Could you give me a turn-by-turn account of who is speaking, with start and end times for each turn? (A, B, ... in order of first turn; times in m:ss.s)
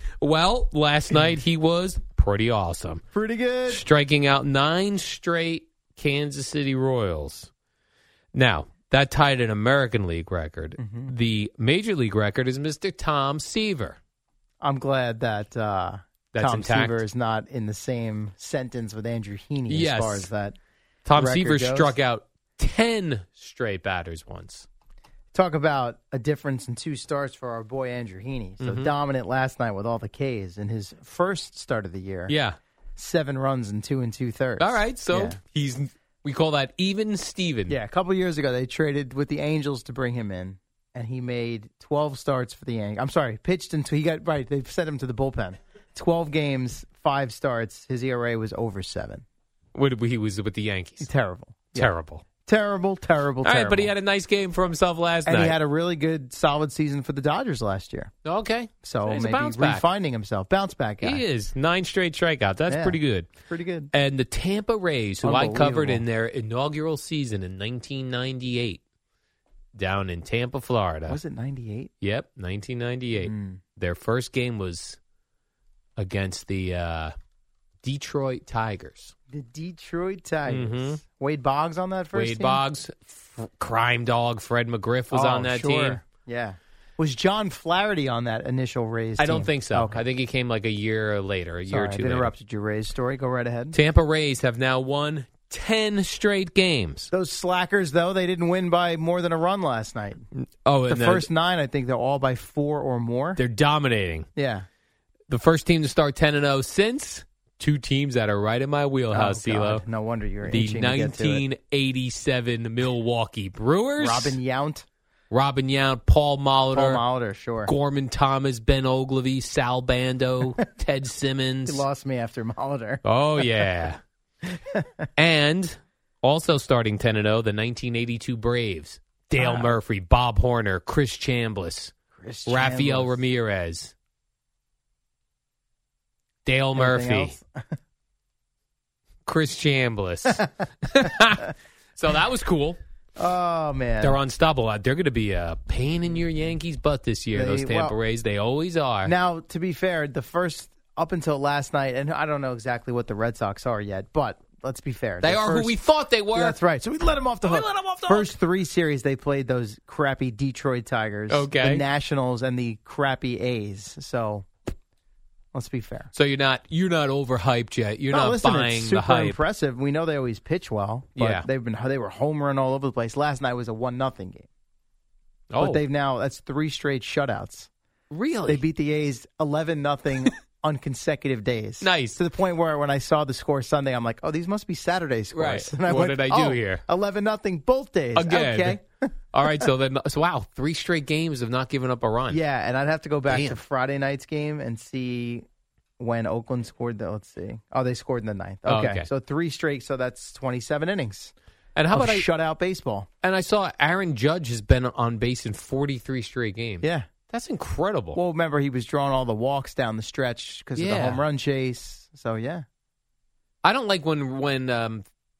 0:00.2-0:03.0 A
0:03.1-0:03.8 B
0:03.7-0:07.5 A
0:08.3-0:14.0 A
0:10.8-0:11.1 B
0:14.6-0:20.6 B
0:16.3-0:17.0 A
0:19.7-0:20.3 A
0:21.0-0:24.7 A
0:21.1-0:22.0 B
0:25.3-0:32.3 B
0:28.6-0:28.9 A
0:32.3-0:32.6 A
0:33.0-0:35.4 B
0:34.6-0:37.8 A
0:37.7-0:49.2 B
0:49.7-0:51.1 A
0:51.0-0:51.9 B
0:51.7-0:52.2 A
0:52.4-0:53.9 B
0:53.4-0:55.6 A
0:55.2-0:58.1 B
0:58.2-0:59.8 A
0:58.8-1:01.2 B
1:01.0-1:03.3 A
1:02.7-1:03.9 B
1:03.9-1:08.8 A
1:05.2-1:06.0 B
1:09.8-1:11.2 A
1:11.1-1:11.9 B
1:12.0-1:15.0 A
1:13.2-1:13.6 B
1:16.0-1:17.1 A
1:17.8-1:19.1 A
1:19.3-1:22.6 B
1:20.5-1:21.0 A
1:22.1-1:26.0 A
1:25.1-1:30.0 B
1:29.2-1:32.3 A
1:31.7-1:33.8 B
1:33.7-1:37.1 A
1:37.1-1:40.2 B
1:40.3-1:41.3 A
1:40.9-1:43.4 B
1:43.4-1:44.3 A
1:44.4-1:44.6 B
1:45.3-1:49.8 A
1:49.1-1:51.4 B
1:50.4-1:54.4 A
1:54.0-1:54.8 B
1:55.3-1:57.0 A
1:56.7-1:57.7 B
1:57.6-2:01.8 A
2:01.6-2:03.0 B
2:03.0-2:04.0 A
2:04.5-2:04.9 B
2:05.2-2:11.9 A
2:09.4-2:09.8 B
2:12.2-2:13.2 B
2:12.4-2:13.9 A
2:16.4-2:17.3 A
2:16.8-2:17.8 B
2:19.2-2:22.8 A
2:23.2-2:24.2 B
2:24.0-2:29.1 A
2:27.3-2:28.0 B
2:29.0-2:35.8 B
2:35.2-2:36.6 A
2:36.3-2:44.5 B
2:37.4-2:38.3 A
2:41.3-2:41.8 A
2:45.5-2:46.1 B
2:46.1-2:49.4 A
2:48.1-2:54.5 B
2:51.2-2:51.5 A
2:55.5-2:55.8 A
2:55.6-2:57.7 B
2:58.1-2:58.6 A
2:58.5-3:08.8 B
3:01.8-3:02.2 A
3:05.3-3:06.8 A
3:08.1-3:08.8 A
3:09.3-3:12.4 A
3:12.3-3:15.4 B
3:13.3-3:13.6 A
3:16.0-3:21.3 B
3:18.7-3:19.1 A
3:21.7-3:22.3 A
3:21.9-3:23.1 B
3:23.2-3:28.2 A
3:26.8-3:27.1 B
3:28.1-3:32.6 B
3:30.8-3:31.2 A
3:33.6-3:35.0 A